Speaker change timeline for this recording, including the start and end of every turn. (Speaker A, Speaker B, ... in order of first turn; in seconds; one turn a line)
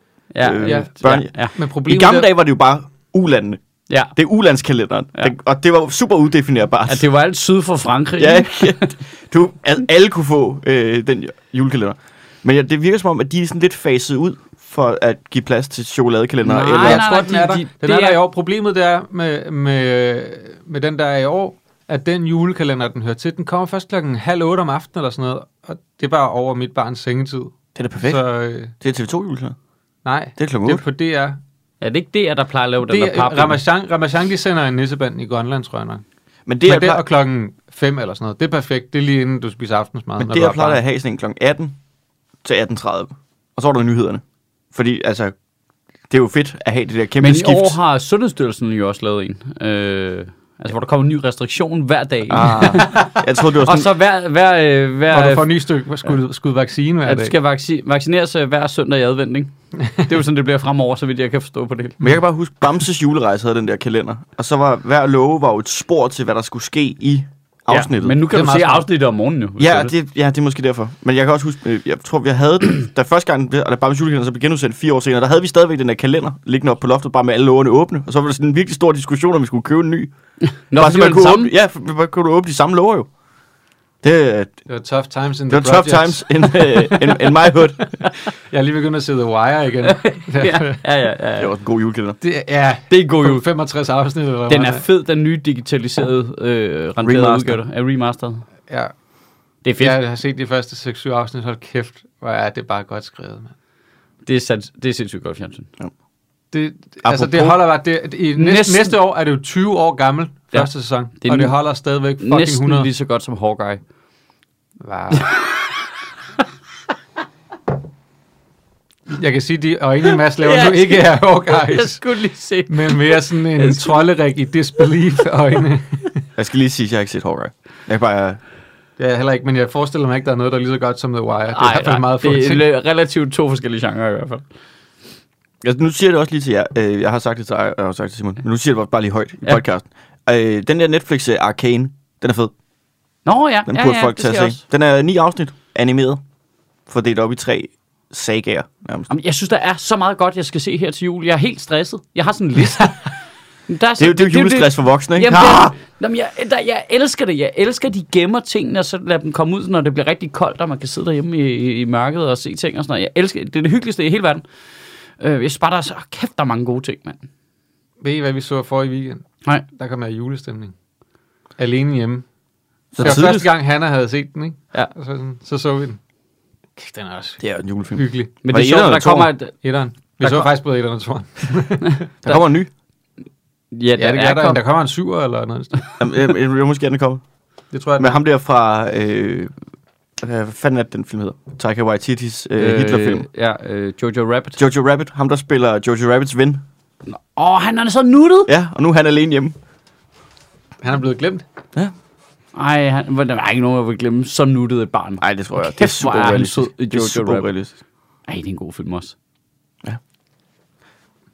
Speaker A: 0.3-1.6
Speaker B: 0.4-3.6
Speaker C: 0.6-0.9
Speaker C: 1.5-2.3
Speaker A: 3.9-4.1
Speaker B: 4.1-7.0
Speaker A: 6.9-8.9
Speaker B: 8.2-17.0
Speaker A: 16.4-18.2
Speaker C: 16.8-28.7
Speaker B: 27.7-28.2
Speaker B: 28.8-29.6
Speaker C: 30.0-31.4
Speaker B: 30.4-30.8
Speaker A: 31.8-33.6
Speaker C: 32.8-36.0
Speaker B: 36.5-37.0
Speaker C: 36.6-40.8
Speaker B: 40.2-41.8
Speaker B: 42.4-45.3
Speaker B: 46.1-47.8
Speaker A: 47.2-55.5
Speaker B: 52.3-53.9
Speaker C: 55.1-57.3
Speaker A: 57.0-62.1
Speaker B: 62.0-68.2
Speaker A: 67.7-69.9
Speaker C: 68.3-68.8
Speaker B: 69.6-80.1
Speaker A: 80.7-81.5
Speaker B: 80.8-83.1
Speaker B: 84.0-84.6
Speaker C: 84.7-90.8
Speaker B: 85.5-87.9
Speaker A: 89.8-91.5
Speaker B: 91.4-92.2
Speaker C: 92.2-94.8
Speaker A: 92.9-93.4
Speaker A: 94.5-98.4
Speaker B: 97.0-97.6
Speaker C: 98.7-98.9
Speaker A: 99.6-100.0
Speaker C: 99.8-103.5
Speaker A: 104.2-105.7
Speaker C: 106.5-112.9
Speaker B: 107.0-107.6
Speaker A: 108.3-108.9
Speaker A: 111.2-111.5
Speaker A: 112.2-113.8
Speaker C: 114.8-115.3
Speaker C: 119.1-122.0
Speaker A: 120.4-124.0
Speaker C: 122.7-126.2
Speaker B: 126.4-128.4
Speaker C: 129.0-132.6
Speaker A: 131.5-134.4
Speaker B: 135.6-142.5
Speaker A: 143.2-144.6
Speaker B: 143.7-146.2
Speaker B: 146.9-149.1
Speaker A: 149.1-153.1
Speaker A: 153.7-164.4
Speaker B: 154.0-155.7
Speaker A: 165.2-167.2
Speaker C: 168.0-170.7
Speaker C: 171.6-172.2
Speaker B: 172.9-173.5
Speaker C: 173.0-176.0
Speaker C: 176.8-177.4
Speaker B: 177.4-179.3
Speaker C: 177.9-178.3
Speaker A: 178.4-179.5
Speaker C: 179.6-182.0
Speaker B: 182.2-182.7
Speaker A: 183.7-184.6
Speaker C: 183.9-185.8
Speaker B: 186.0-187.2
Speaker C: 187.7-188.2
Speaker B: 188.0-189.5
Speaker B: 190.2-193.3
Speaker A: 192.6-194.6
Speaker B: 194.6-196.6
Speaker A: 197.1-198.5
Speaker B: 198.5-199.6
Speaker C: 200.8-201.4
Speaker A: 202.5-207.5
Speaker B: 205.2-207.8
Speaker A: 208.3-209.1